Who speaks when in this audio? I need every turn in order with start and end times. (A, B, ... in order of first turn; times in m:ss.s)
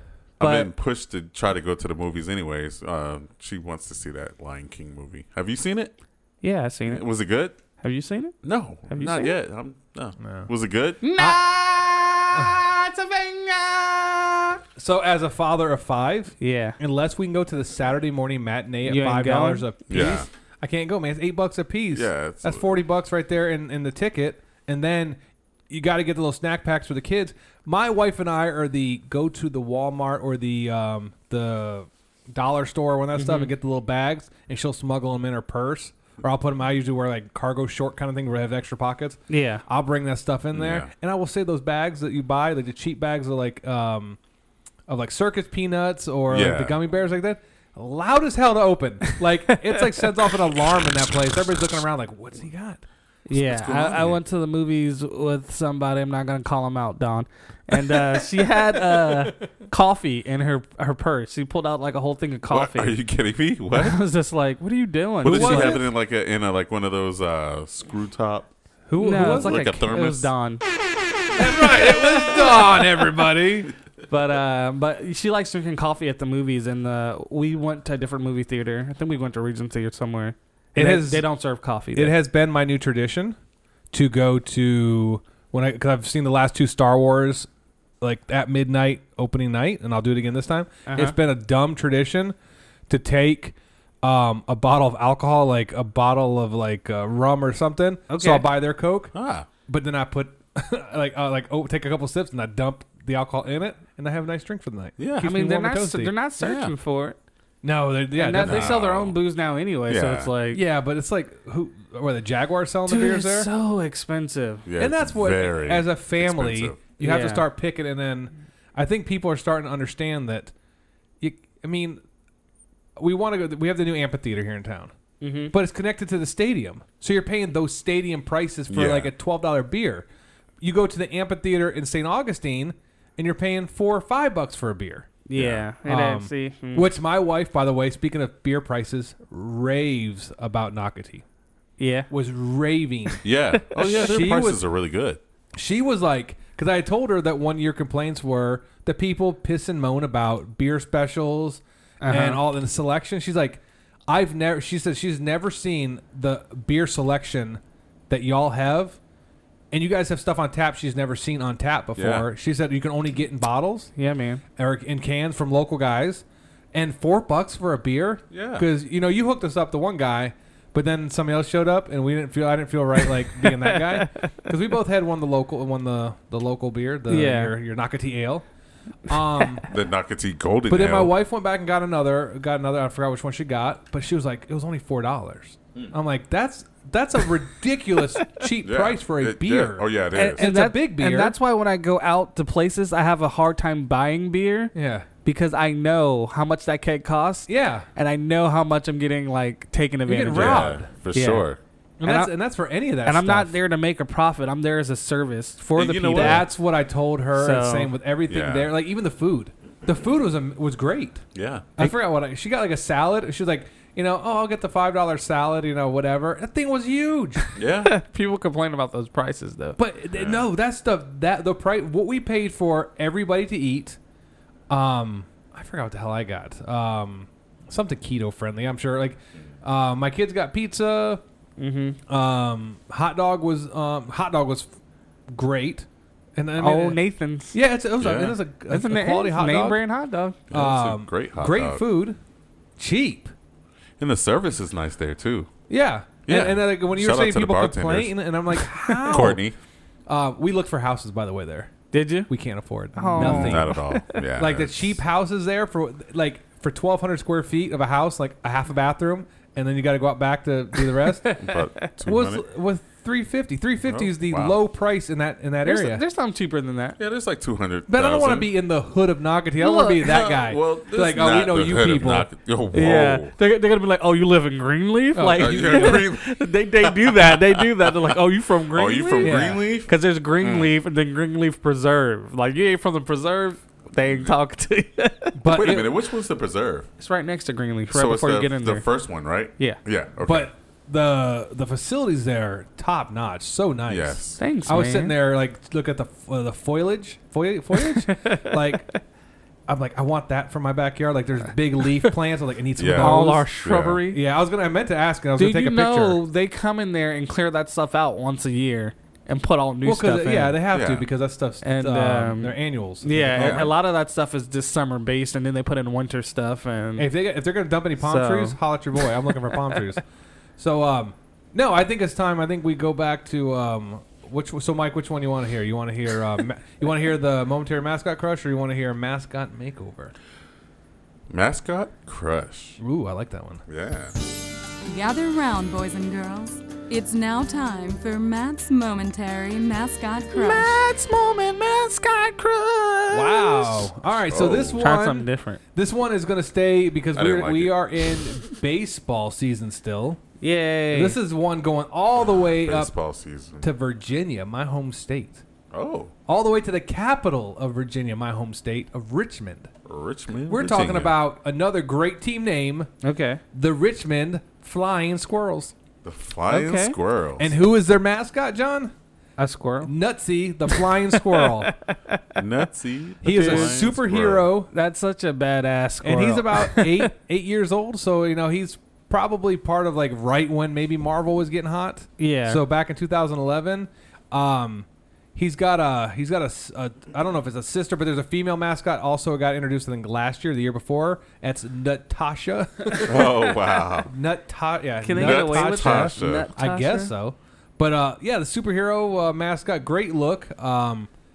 0:00.4-0:05.9 A
0:00.4-0:00.7 B
0:06.4-0:07.0 B
0:06.9-0:07.6 A
0:07.8-0:08.4 B
0:08.4-0:11.0 A
0:08.9-0:09.3 B
0:10.2-0:10.5 C
0:11.0-0:14.6 B
0:11.2-0:11.4 C
0:14.8-0:44.2 C
0:16.4-0:16.8 B
0:18.8-0:19.7 B
0:19.9-0:20.3 A
0:21.9-0:22.7 A
0:33.2-0:33.5 B
0:39.3-0:39.6 B
0:40.5-0:40.9 A
0:44.9-0:52.8 C
0:46.3-0:46.8 A
0:53.3-1:03.0 B
0:53.3-0:54.2 A
0:57.8-0:59.4 C
1:02.5-1:04.0 A
1:03.7-1:05.8 B
1:05.2-1:08.5 A
1:05.2-1:05.9 C
1:08.9-1:09.7 C
1:09.0-1:10.6 B
1:09.2-1:10.3 A
1:11.3-1:13.7 C
1:14.1-1:22.2 B
1:20.7-1:21.3 C
1:21.9-1:23.4 C
1:23.9-1:27.5 C
1:28.0-1:32.4 C
1:30.9-1:31.2 B
1:32.9-1:39.2 C
1:38.1-1:38.5 B
1:39.1-1:39.5 A
1:39.7-1:46.1 C
1:45.0-1:45.3 A
1:45.2-1:47.2 B
1:46.4-1:46.7 A
1:47.6-1:48.8 C
1:48.2-1:50.6 B
1:48.4-1:49.2 A
1:49.9-1:50.3 A
1:50.5-1:53.5 C
1:52.9-1:54.7 B
1:54.7-1:56.8 A
1:54.8-2:00.5 C
1:57.0-1:57.5 B
2:01.2-2:02.0 C
2:03.0-2:04.9 C
2:05.2-2:05.5 B
2:05.5-2:10.1 C
2:08.7-2:09.1 A
2:10.6-2:15.1 C
2:15.3-2:17.0 B
2:15.4-2:15.6 A
2:15.8-2:21.2 C
2:21.8-2:22.1 B
2:22.1-2:23.2 C
2:23.2-2:25.2 A
2:23.6-2:24.0 B
2:23.8-2:24.6 C
2:25.6-2:39.0 C
2:32.0-2:32.4 B
2:39.7-2:43.9 C
2:42.0-2:42.3 A
2:44.0-2:44.4 B
2:44.6-2:58.4 C
2:48.3-2:48.7 A
2:53.4-2:54.3 B
2:57.1-2:57.6 B
2:59.1-2:59.7 C
2:59.7-3:01.2 A
3:00.7-3:11.4 C
3:08.6-3:10.5 A
3:10.1-3:14.7 B
3:14.7-3:15.1 C
3:15.2-3:21.5 B
3:17.5-3:17.9 C
3:20.1-3:20.9 C
3:20.3-3:21.6 A
3:22.0-3:23.6 C
3:22.0-3:22.3 B
3:23.0-3:26.4 B
3:25.8-3:26.5 A
3:25.8-3:31.2 C
3:27.4-3:27.9 B
3:28.3-3:28.7 A
3:31.4-3:31.7 A
3:31.8-3:37.4 C
3:37.6-3:37.9 A
3:37.8-3:39.8 B
3:39.8-3:44.0 C
3:40.1-3:40.5 A
3:44.7-3:51.2 C
3:51.6-3:52.0 B
3:52.1-3:54.7 C
3:55.3-3:57.0 C
3:56.6-3:57.6 B
3:57.5-3:59.8 C
3:58.0-3:58.4 A
3:58.7-4:00.4 B
4:00.5-4:01.8 A
4:00.5-4:02.2 C
4:02.8-4:03.3 C
4:04.0-4:05.5 A
4:05.7-4:09.4 C
4:06.3-4:08.2 A
4:09.1-4:09.6 A
4:10.1-4:11.7 C
4:11.9-4:12.3 B
4:12.3-4:13.8 C
4:13.0-4:14.0 B
4:13.2-4:15.0 A
4:14.4-4:21.4 C
4:21.2-4:21.9 B
4:21.4-4:22.4 A
4:22.1-4:26.0 C
4:23.9-4:24.6 A
4:25.6-4:27.0 B
4:27.0-4:28.5 A
4:27.9-4:32.3 C
4:29.6-4:30.0 B
4:30.0-4:33.3 A
4:32.7-4:45.4 B
4:35.1-4:36.1 C
4:35.4-4:38.2 A
4:38.7-4:40.7 A
4:39.2-4:39.6 C
4:44.1-4:44.3 A
4:45.4-4:45.9 C
4:45.5-4:46.9 A
4:47.0-4:48.9 B
4:47.9-4:50.5 A
4:50.2-4:58.9 C
4:53.9-4:54.4 A
4:54.4-4:55.2 B
4:57.8-4:59.0 B
4:59.7-5:03.5 C
5:02.8-5:04.0 A
5:03.0-5:04.2 B
5:04.1-5:06.2 C
5:05.4-5:10.6 B
5:09.8-5:13.8 C
5:10.7-5:11.1 A
5:11.6-5:17.1 B
5:13.3-5:13.7 A
5:17.0-5:20.0 C
5:18.0-5:18.6 B
5:20.6-5:30.1 C
5:31.3-5:32.8 A
5:32.8-5:33.6 C
5:33.7-5:34.2 A
5:34.8-5:40.8 D
5:40.3-5:43.7 B
5:43.1-5:50.2 C
5:44.3-5:44.8 A
5:44.8-5:45.6 B
5:47.2-5:47.8 A
5:50.4-5:51.2 B
5:50.9-5:52.9 C
5:52.2-5:53.7 A
5:53.6-5:55.4 C
5:55.7-5:56.1 A
5:56.3-5:59.7 C
5:59.9-6:01.2 A
6:00.5-6:02.9 C
6:03.0-6:03.4 B
6:03.5-6:05.7 C
6:06.0-6:07.5 A
6:06.5-6:07.0 B
6:07.4-6:08.9 C
6:09.4-6:09.9 B
6:09.8-6:11.7 C
6:10.7-6:12.2 B
6:12.4-6:14.5 A
6:13.2-6:14.7 C
6:13.3-6:13.7 B
6:14.7-6:17.1 B
6:16.0-6:41.1 C
6:22.2-6:22.6 B
6:33.0-6:34.1 A
6:35.0-6:37.1 B
6:35.1-6:36.5 A